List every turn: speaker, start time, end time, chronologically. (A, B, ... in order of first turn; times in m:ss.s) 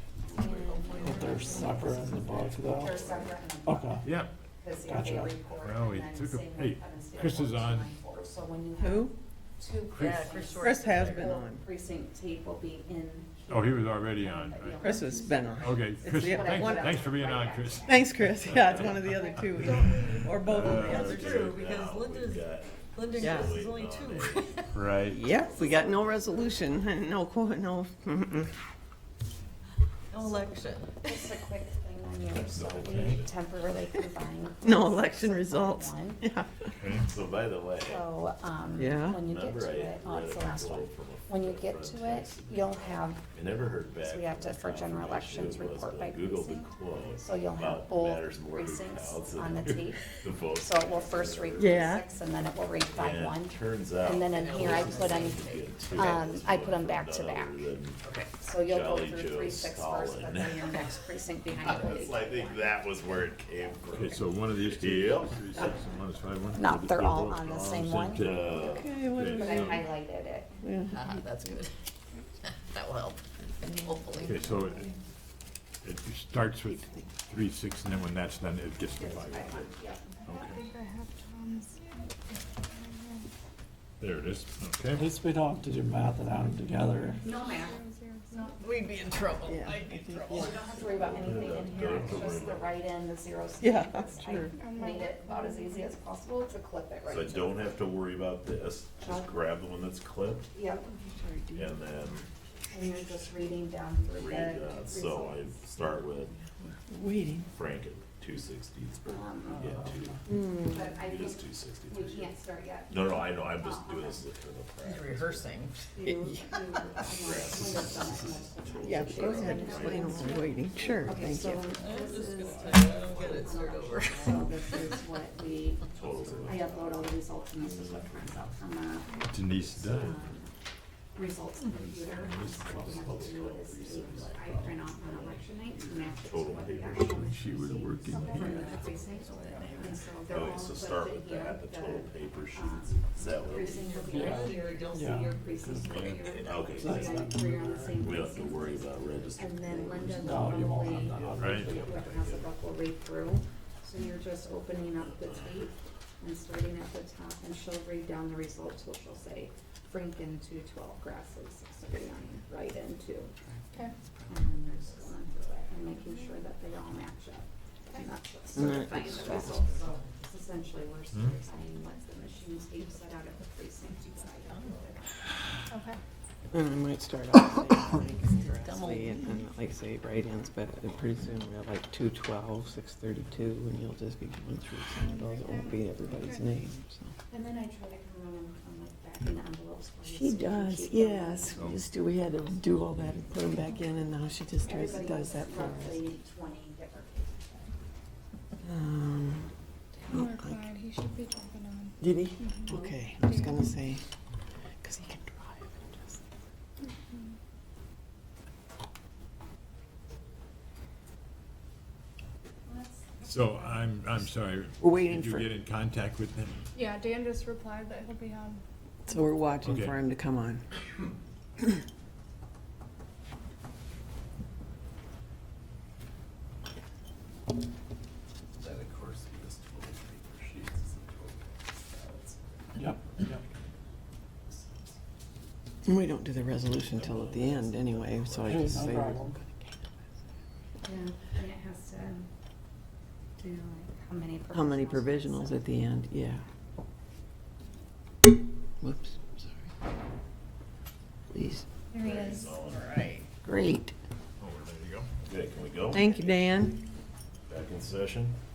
0:00.3-0:04.0 A
0:00.4-0:02.2 B
0:01.0-0:03.1 C
0:03.6-0:04.0 C
0:04.0-0:04.3 D
0:04.6-0:19.8 A
0:04.8-0:05.5 C
0:05.5-0:07.9 D
0:08.8-0:09.1 E
0:10.0-0:11.4 B
0:10.2-0:11.6 E
0:13.5-0:14.9 D
0:14.8-0:16.9 E
0:15.5-0:19.8 D
0:17.9-0:21.1 E
0:19.9-0:20.4 F
0:20.1-0:24.7 B
0:20.4-0:21.0 D
0:20.8-0:24.5 G
0:23.2-0:23.6 E
0:24.7-0:25.2 D
0:25.1-0:28.5 E
0:25.3-0:26.6 G
0:30.1-0:31.2 B
0:30.2-0:36.2 A
0:32.5-0:33.3 G
0:32.6-0:33.2 D
0:34.6-0:36.7 E
0:36.7-0:37.1 D
0:37.1-0:38.0 G
0:37.8-0:43.2 A
0:38.8-0:39.2 E
0:39.2-0:51.9 G
0:44.0-0:50.0 A
0:50.5-0:57.6 A
0:51.6-0:52.0 E
0:52.9-0:58.0 G
0:54.2-0:56.2 B
0:58.0-0:58.3 B
0:58.4-1:02.8 A
0:58.6-1:00.9 G
1:01.6-1:05.7 G
1:03.9-1:08.6 D
1:06.5-1:10.6 A
1:08.2-1:08.9 G
1:08.7-1:09.8 E
1:09.1-1:09.9 D
1:10.6-1:10.9 E
1:10.9-1:11.7 B
1:12.4-1:14.4 B
1:13.6-1:14.8 E
1:14.2-1:14.9 D
1:15.8-1:19.7 D
1:16.8-1:17.1 E
1:18.9-1:20.0 A
1:20.2-1:20.6 D
1:20.3-1:23.3 F
1:24.0-1:25.1 D
1:24.9-1:27.2 C
1:26.9-1:28.6 F
1:27.2-1:27.8 A
1:28.6-1:30.6 B
1:29.4-1:30.6 E
1:30.3-1:37.9 A
1:31.0-1:32.7 G
1:33.6-1:34.5 E
1:34.4-1:35.9 F
1:37.1-1:40.5 G
1:39.0-1:39.3 A
1:40.5-1:40.8 A
1:40.8-1:41.8 E
1:41.5-1:42.3 G
1:42.7-1:45.6 A
1:44.1-1:46.4 G
1:46.9-1:47.5 E
1:47.5-1:50.2 G
1:49.1-1:49.7 A
1:50.3-1:50.9 E
1:50.3-1:54.2 A
1:50.9-1:52.3 G
1:52.9-1:55.6 G
1:54.8-1:55.8 B
1:56.0-2:00.4 A
1:57.1-2:01.9 G
1:58.8-2:01.8 E
1:59.1-1:59.6 B
1:59.7-2:00.4 F
2:01.0-2:05.8 A
2:01.8-2:04.9 B
2:02.4-2:02.8 G
2:02.7-2:03.5 D
2:05.9-2:07.0 G
2:06.4-2:10.5 A
2:07.6-2:08.4 G
2:09.3-2:10.2 D
2:09.7-2:10.1 G
2:11.1-2:43.3 A
2:11.8-2:13.3 D
2:12.7-2:15.4 G
2:16.2-2:18.6 G
2:17.1-2:18.7 D
2:18.2-2:19.6 F
2:19.1-2:20.0 B
2:20.3-2:23.9 G
2:23.5-2:25.5 B
2:24.9-2:26.0 C
2:25.9-2:27.2 G
2:26.8-2:28.0 C
2:27.9-2:32.5 G
2:29.9-2:32.0 C
2:31.4-2:31.7 D
2:35.0-2:35.6 G
2:44.3-2:55.0 A
2:46.0-2:46.4 F
2:48.6-2:49.4 E
2:48.6-2:50.0 B
2:55.7-2:56.0 F
2:56.5-3:07.1 E
2:58.2-2:59.2 B
3:05.0-3:06.5 F
3:07.3-3:11.7 A
3:10.0-3:16.0 E
3:14.6-3:17.6 A
3:18.6-3:19.5 E
3:20.1-3:20.6 E
3:20.1-3:23.6 F
3:22.0-3:24.0 E
3:24.8-3:26.2 E
3:32.7-3:33.8 A
3:33.2-3:36.6 D
3:34.8-3:35.5 E
3:36.7-3:38.6 F
3:39.0-3:40.6 E
3:39.6-3:40.0 D
3:48.6-3:53.4 G
3:54.5-3:55.0 G
3:55.8-4:00.0 E
3:56.9-3:58.9 G
3:58.5-3:59.3 C
4:00.8-4:02.3 A
4:03.4-4:05.6 A
4:04.5-4:06.4 E
4:08.8-4:09.6 E
4:11.3-4:11.6 E
4:11.9-4:12.9 G
4:12.7-4:13.2 B
4:13.4-4:13.9 E
4:14.4-4:15.1 D
4:15.2-4:16.4 G
4:15.9-4:16.8 E
4:17.5-4:18.3 G